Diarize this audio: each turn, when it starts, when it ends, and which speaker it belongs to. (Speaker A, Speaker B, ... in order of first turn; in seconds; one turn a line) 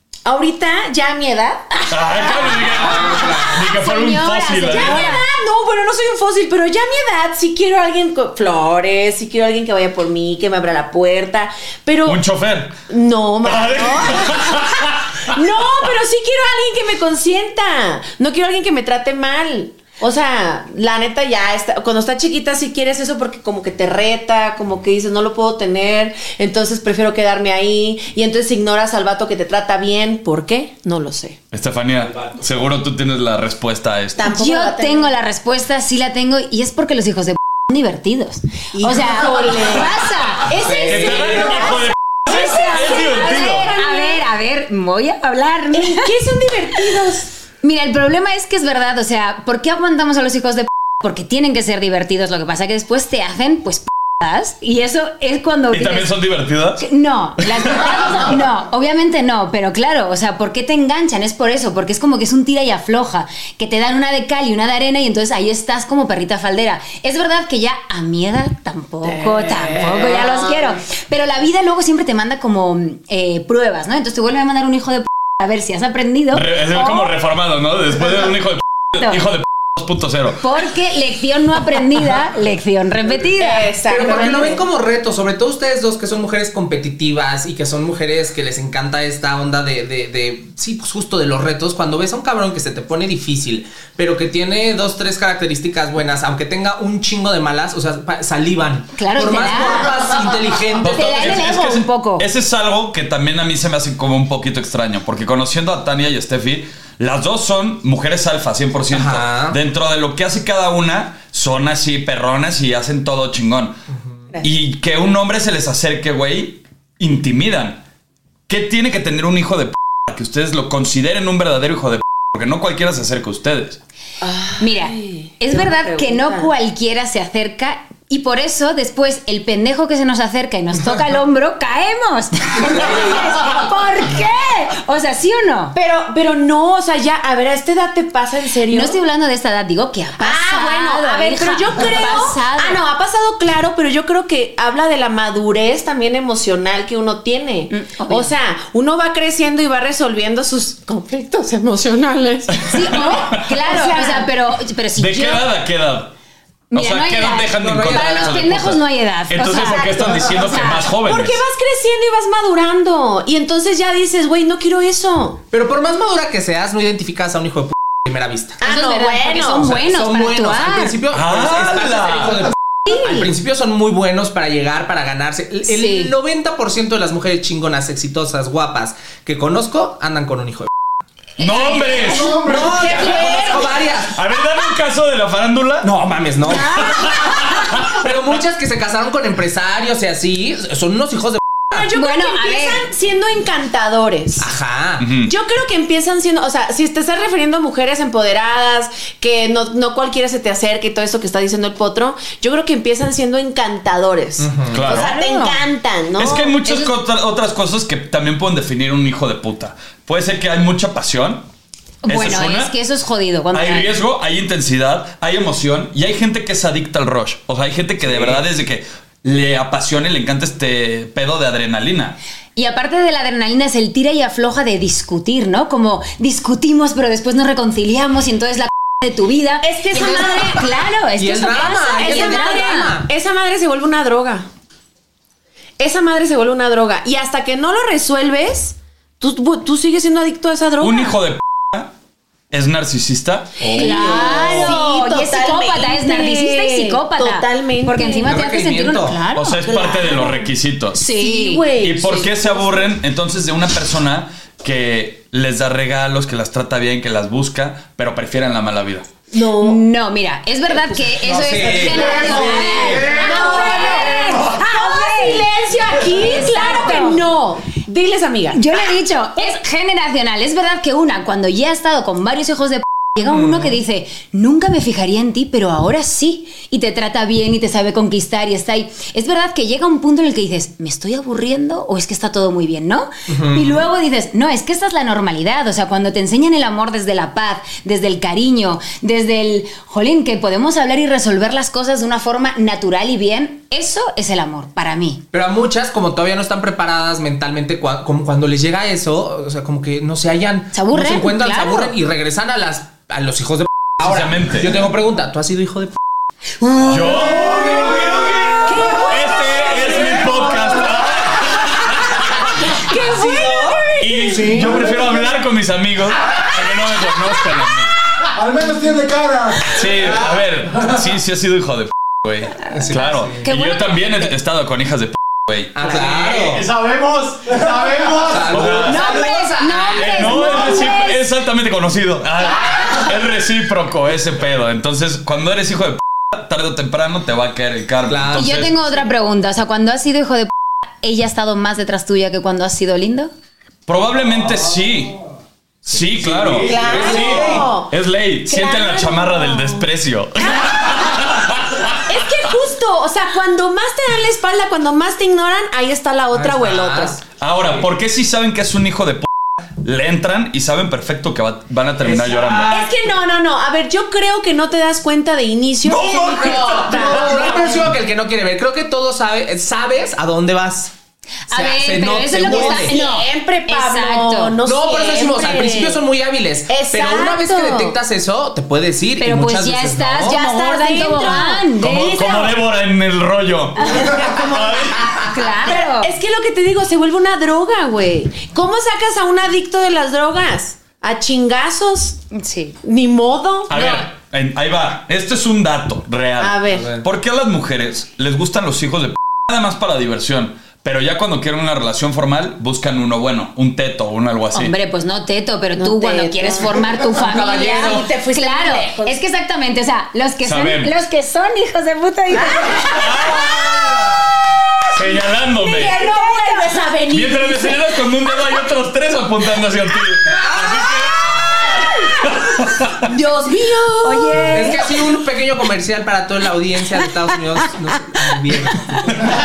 Speaker A: 0.2-3.7
Speaker B: 1.9-5.2
Speaker C: 3.0-3.5
Speaker D: 3.5-5.2
Speaker A: 4.6-12.2
Speaker B: 12.0-12.7
Speaker A: 12.9-31.4
Speaker B: 13.4-15.1
Speaker B: 31.5-34.2
Speaker A: 34.1-35.1
Speaker D: 34.2-40.9
Speaker A: 38.7-44.2
Speaker C: 40.8-41.2
Speaker B: 40.9-43.7
Speaker D: 42.3-46.1
Speaker A: 45.7-47.3
Speaker D: 47.6-56.1
Speaker B: 55.7-56.9
Speaker D: 56.8-77.1
Speaker B: 57.4-58.3
Speaker A: 69.0-70.8
Speaker B: 76.3-80.4
Speaker D: 80.4-83.7
Speaker A: 83.4-84.6
Speaker C: 83.9-101.2
Speaker D: 99.0-100.2
Speaker B: 100.8-113.8
Speaker D: 100.8-102.2
Speaker C: 108.9-109.6
Speaker B: 114.4-117.8
Speaker B: 118.5-123.8
Speaker A: 124.2-126.5
Speaker D: 124.6-135.8
Speaker A: 135.7-139.0
Speaker D: 138.7-142.8
Speaker A: 140.2-154.3
Speaker D: 147.7-148.3
Speaker B: 152.6-153.5
Speaker D: 152.7-155.4
Speaker B: 155.0-156.1
Speaker D: 156.7-160.8
Speaker B: 156.7-161.4
Speaker C: 157.5-158.6
Speaker A: 159.4-165.4
Speaker C: 165.5-168.6
Speaker A: 168.6-169.8
Speaker D: 168.6-170.9
Speaker C: 169.6-180.7
Speaker B: 171.1-172.5
Speaker D: 175.7-176.1
Speaker B: 181.4-182.5
Speaker D: 181.4-182.2
Speaker E: 182.0-182.9
Speaker C: 182.3-184.2
Speaker A: 182.6-183.9
Speaker B: 184.1-185.9
Speaker C: 185.8-186.9
Speaker D: 186.6-187.1
Speaker B: 186.8-187.8
Speaker C: 187.8-191.9
Speaker A: 191.7-194.5
Speaker D: 191.9-192.9
Speaker C: 194.4-195.0
Speaker B: 195.0-195.3
Speaker A: 195.2-206.9
Speaker C: 204.4-204.8
Speaker B: 204.7-205.1
Speaker D: 204.9-205.6
Speaker B: 206.2-211.4
Speaker D: 212.0-213.9
Speaker B: 212.1-212.7
Speaker B: 213.5-222.2
Speaker C: 218.1-218.4
Speaker D: 222.6-232.9
Speaker A: 229.6-230.8
Speaker C: 231.2-233.1
Speaker A: 231.6-234.5
Speaker A: 235.8-241.2
Speaker B: 240.8-241.9
Speaker B: 242.5-243.6
Speaker C: 243.6-244.7
Speaker A: 243.6-248.3
Speaker D: 243.8-249.6
Speaker C: 248.2-249.2
Speaker B: 249.3-251.0
Speaker A: 249.6-250.5
Speaker D: 250.9-251.7
Speaker A: 251.0-252.8
Speaker B: 251.8-259.1
Speaker A: 259.3-259.8
Speaker D: 259.6-267.2
Speaker C: 261.1-263.0
Speaker B: 261.5-262.2
Speaker A: 261.8-269.5
Speaker E: 262.2-263.6
Speaker D: 268.5-295.2
Speaker C: 273.2-273.8
Speaker C: 283.3-283.8
Speaker C: 295.3-305.9
Speaker D: 300.7-301.9
Speaker B: 304.0-304.7
Speaker A: 306.6-308.0
Speaker B: 306.9-308.0
Speaker E: 307.4-308.7
Speaker A: 308.6-311.6
Speaker D: 308.7-309.9
Speaker B: 309.0-312.4
Speaker A: 312.6-314.5
Speaker C: 312.9-314.7
Speaker B: 314.0-317.9
Speaker E: 314.7-315.1
Speaker E: 318.3-320.4
Speaker B: 319.6-326.0
Speaker C: 322.6-323.4
Speaker D: 323.3-324.3
Speaker C: 325.7-326.6
Speaker E: 326.0-329.4
Speaker C: 328.2-330.8
Speaker B: 328.5-329.0
Speaker D: 328.8-331.2
Speaker B: 329.9-338.7
Speaker C: 338.1-338.6
Speaker D: 338.3-343.3
Speaker B: 343.9-345.2
Speaker B: 345.9-351.8
Speaker C: 346.1-347.7
Speaker E: 346.5-347.4
Speaker A: 346.6-347.9
Speaker A: 348.5-349.9
Speaker A: 350.4-351.3
Speaker A: 352.1-357.2
Speaker C: 356.3-357.2
Speaker B: 357.4-359.3
Speaker B: 359.8-362.7
Speaker C: 362.0-362.8
Speaker A: 362.7-367.8
Speaker C: 365.9-370.9
Speaker E: 366.9-367.6
Speaker D: 371.5-374.6
Speaker C: 371.5-373.0
Speaker A: 372.5-376.0
Speaker C: 374.6-380.4
Speaker A: 376.7-378.0
Speaker D: 379.2-382.6
Speaker A: 380.2-381.6
Speaker B: 381.8-385.0
Speaker A: 383.8-392.2
Speaker D: 383.8-384.3
Speaker D: 385.2-386.1
Speaker D: 392.3-392.8
Speaker A: 392.8-394.0
Speaker B: 393.7-404.7
Speaker D: 393.7-394.0
Speaker A: 396.4-396.9
Speaker C: 396.7-397.0
Speaker D: 404.5-413.4
Speaker A: 405.8-409.2
Speaker C: 407.3-408.0
Speaker B: 410.4-410.9
Speaker A: 412.3-413.9
Speaker B: 412.9-414.2
Speaker B: 414.9-415.9
Speaker A: 415.6-417.8
Speaker D: 415.9-416.8
Speaker B: 417.1-423.0
Speaker A: 420.4-422.2
Speaker A: 423.0-424.9
Speaker D: 424.0-424.9
Speaker C: 424.5-429.3